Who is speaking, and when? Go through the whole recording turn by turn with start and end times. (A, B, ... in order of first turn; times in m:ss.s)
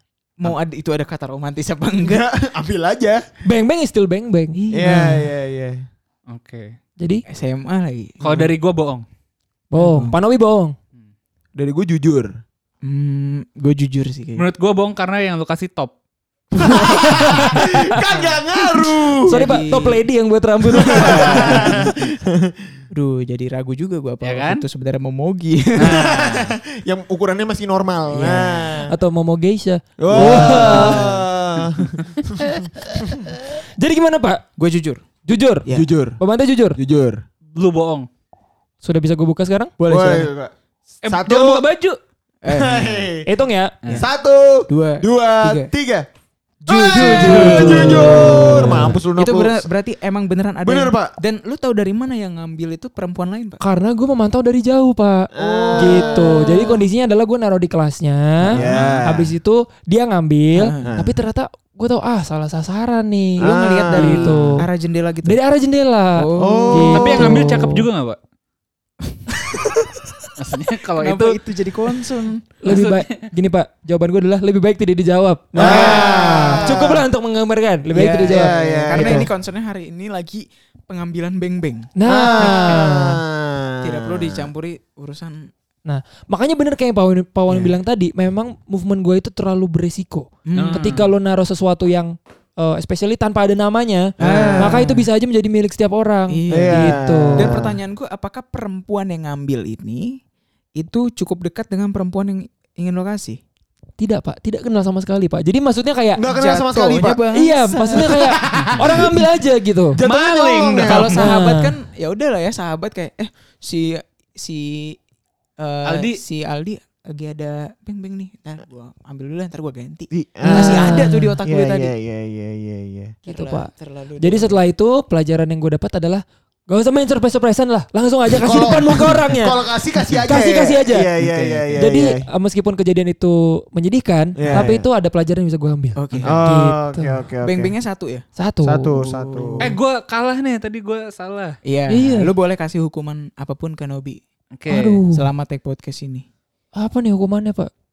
0:00.4-0:02.3 A
0:02.0-0:03.2 B
0:03.4-0:05.0 C
0:04.5-0:05.3 A
0:04.7-0:05.8 B
0:06.3-0:06.8 D
0:07.0-0:07.2 C
0:07.3-0:08.5 A
0:08.2-0:09.0 D
0:09.7-0:10.8 C
0:09.8-0:10.2 A
0:11.6-0:12.4 B
0:12.8-0:14.4 A
0:14.4-0:16.0 D
0:16.5-0:19.5 B
0:16.7-0:18.0 C
0:19.3-0:20.1 A
0:19.3-0:21.8 C
0:20.7-0:21.9 A
0:20.7-0:22.6 B
0:22.9-0:26.1 A
0:24.2-0:24.6 D
0:25.8-0:26.5 D
0:25.8-0:28.9 B
0:28.1-0:28.9 A
0:28.9-0:31.1 C
0:30.0-0:33.3 B
0:30.1-0:31.2 A
0:32.4-0:34.4 C
0:34.6-0:35.1 A
0:35.3-0:35.7 C
0:35.7-0:36.2 B
0:36.2-0:36.8 C
0:36.8-0:37.2 B
0:37.5-0:38.1 D
0:38.8-0:39.7 C
0:39.8-0:40.3 A
0:39.9-0:40.5 B
0:41.0-0:41.6 B
0:41.0-0:42.0 D
0:42.4-0:43.1 A
0:42.5-0:43.3 B
0:43.3-0:43.8 C
0:44.0-0:46.1 B
0:44.7-0:45.7 A
0:46.6-0:53.6 A
0:46.7-0:49.7 B
0:46.9-0:48.9 C
0:47.0-0:47.9 D
0:50.6-0:51.1 B
0:53.6-1:04.7 C
0:55.3-0:56.8 B
0:55.4-0:56.6 A
0:58.4-0:58.8 A
0:58.5-0:59.4 B
0:58.7-0:59.0 D
1:00.5-1:00.9 A
1:00.8-1:01.2 B
1:03.4-1:05.4 A
1:03.4-1:04.5 B
1:05.2-1:07.9 C
1:06.2-1:07.0 A
1:06.4-1:07.5 B
1:06.9-1:08.2 D
1:10.4-1:11.4 D
1:11.0-1:12.4 A
1:12.6-1:19.3 C
1:12.6-1:13.3 D
1:15.5-1:17.1 B
1:15.6-1:16.7 A
1:17.9-1:22.8 A
1:18.2-1:19.3 B
1:22.0-1:23.2 C
1:22.0-1:24.5 B
1:23.8-1:25.5 A
1:25.9-1:37.6 C
1:27.5-1:27.8 A
1:30.5-1:31.1 A
1:30.6-1:31.0 D
1:34.2-1:34.9 B
1:34.2-1:35.1 A
1:36.3-1:40.2 A
1:36.5-1:37.8 B
1:40.8-1:43.4 A
1:44.0-1:46.2 C
1:46.2-1:47.2 B
1:46.3-1:48.4 A
1:47.3-1:50.0 C
1:48.1-1:49.3 B
1:49.9-1:51.2 B
1:50.0-1:51.0 D
1:50.8-1:55.0 A
1:51.1-1:51.7 C
1:55.6-2:01.9 A
1:55.8-1:56.2 D
2:00.1-2:03.2 B
2:00.4-2:01.4 C
2:03.2-2:04.6 A
2:03.3-2:11.1 C
2:08.3-2:12.3 B
2:11.2-2:11.8 A
2:11.8-2:17.2 C
2:14.4-2:14.9 B
2:14.4-2:14.7 A
2:16.0-2:16.4 A
2:16.2-2:17.7 B
2:17.4-2:18.2 A
2:18.4-2:19.0 C
2:18.6-2:19.7 B
2:19.0-2:19.7 A
2:19.6-2:21.6 D
2:21.6-2:24.2 A
2:21.9-2:22.3 C
2:24.6-2:25.0 D
2:24.7-2:25.3 C
2:25.1-2:26.3 A
2:26.8-2:27.7 C